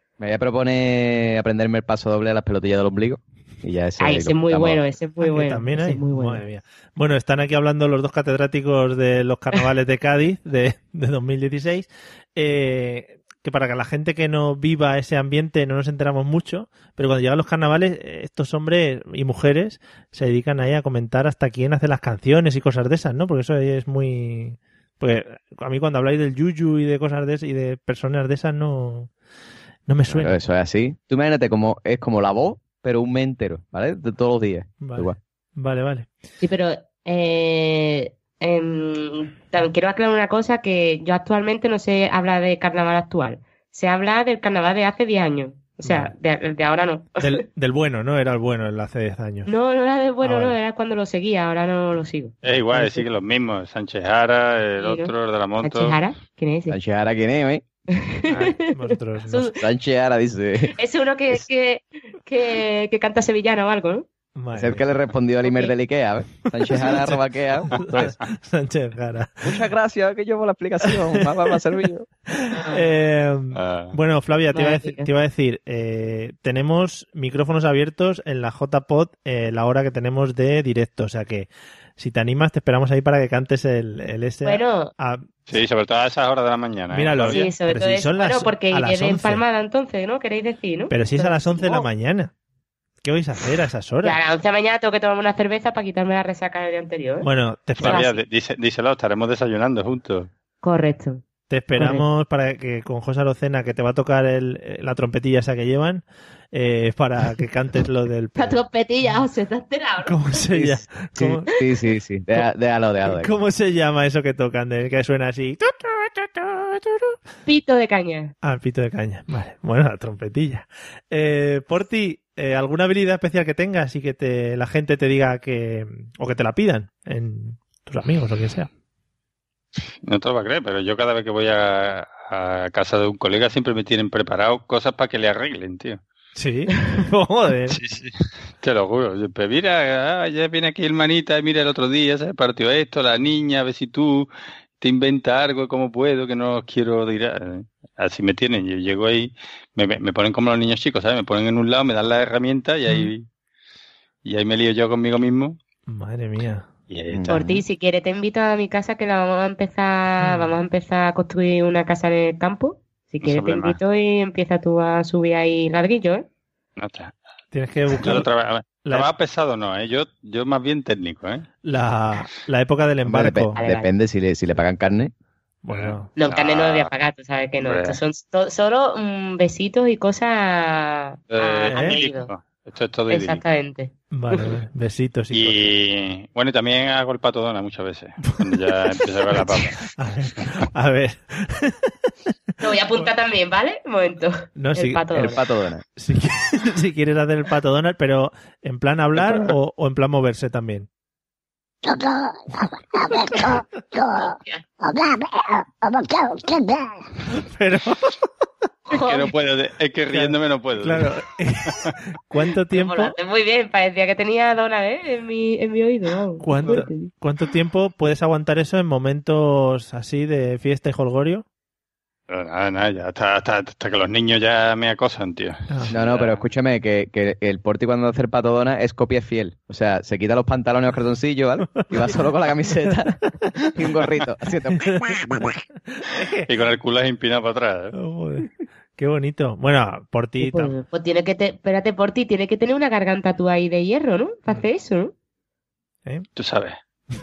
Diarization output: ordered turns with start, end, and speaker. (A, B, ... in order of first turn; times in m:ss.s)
0:00.2-0:04.8 A
0:04.0-0:06.4 B
0:05.2-0:29.1 C
0:29.9-0:30.4 C
0:30.1-0:35.2 A
0:34.8-0:36.1 C
0:36.4-0:47.4 B
0:45.8-0:46.1 C
0:47.2-0:49.5 C
0:49.5-0:52.4 B
0:50.2-0:50.6 C
0:52.4-0:56.0 D
0:54.8-0:56.8 B
0:56.7-0:57.6 A
0:58.0-0:59.6 B
0:58.3-0:59.5 C
0:59.6-1:00.8 A
1:00.8-1:04.1 B
1:04.4-1:04.8 C
1:04.5-1:08.2 A
1:05.5-1:05.7 B
1:06.6-1:09.6 C
1:09.4-1:12.1 A
1:10.9-1:11.2 C
1:12.3-1:25.3 C
1:12.5-1:12.8 B
1:13.5-1:14.0 D
1:14.5-1:15.1 B
1:24.4-1:24.9 B
1:25.5-1:27.4 D
1:26.9-1:29.4 C
1:27.2-1:31.9 B
1:30.9-1:32.3 C
1:33.0-1:34.2 C
1:34.0-1:37.3 B
1:37.2-1:38.0 C
1:37.8-1:38.2 B
1:37.8-1:40.3 D
1:40.6-1:41.2 B
1:41.5-1:49.2 C
1:41.8-1:42.0 B
1:48.4-1:50.2 B
1:50.0-1:51.5 C
1:50.5-1:53.3 A
1:53.0-1:57.1 C
1:57.5-1:58.3 B
1:58.4-2:08.7 C
2:10.0-2:16.0 D
2:16.4-2:17.8 C
2:17.7-2:24.3 D
2:24.8-2:33.2 D
2:34.2-2:35.6 D
2:35.9-2:36.7 C
2:36.9-2:37.5 D
2:37.1-2:37.6 A
2:37.3-2:46.3 B
2:40.2-2:40.6 C
2:43.2-2:43.8 D
2:46.8-2:47.2 D
2:47.5-2:48.3 C
2:48.0-2:51.5 D
2:51.6-2:53.6 C
2:53.0-2:55.1 A
2:53.6-2:53.9 B
2:55.6-2:56.1 C
2:55.7-2:56.9 D
2:56.2-3:02.3 B
2:57.6-2:58.0 D
3:01.3-3:03.4 D
3:01.7-3:02.0 C
3:03.1-3:04.5 B
3:04.1-3:05.7 C
3:05.3-3:09.9 D
3:09.0-3:11.9 C
3:12.6-3:15.4 B
3:14.6-3:15.0 C
3:15.1-3:15.8 A
3:16.0-3:20.9 C
3:24.2-3:24.6 B
3:27.3-3:28.3 C
3:28.9-3:29.3 B
3:28.9-3:31.1 D
3:30.1-3:33.2 C
3:32.7-3:37.1 B
3:36.4-3:41.4 C
3:42.3-3:46.4 D
3:45.7-3:45.9 C
3:45.9-3:55.6 A
3:51.8-3:52.0 C
3:54.7-3:55.2 C
3:55.9-3:56.5 C
3:56.5-3:57.9 D
3:57.9-4:00.7 C
4:00.4-4:05.1 B
4:06.4-4:06.8 D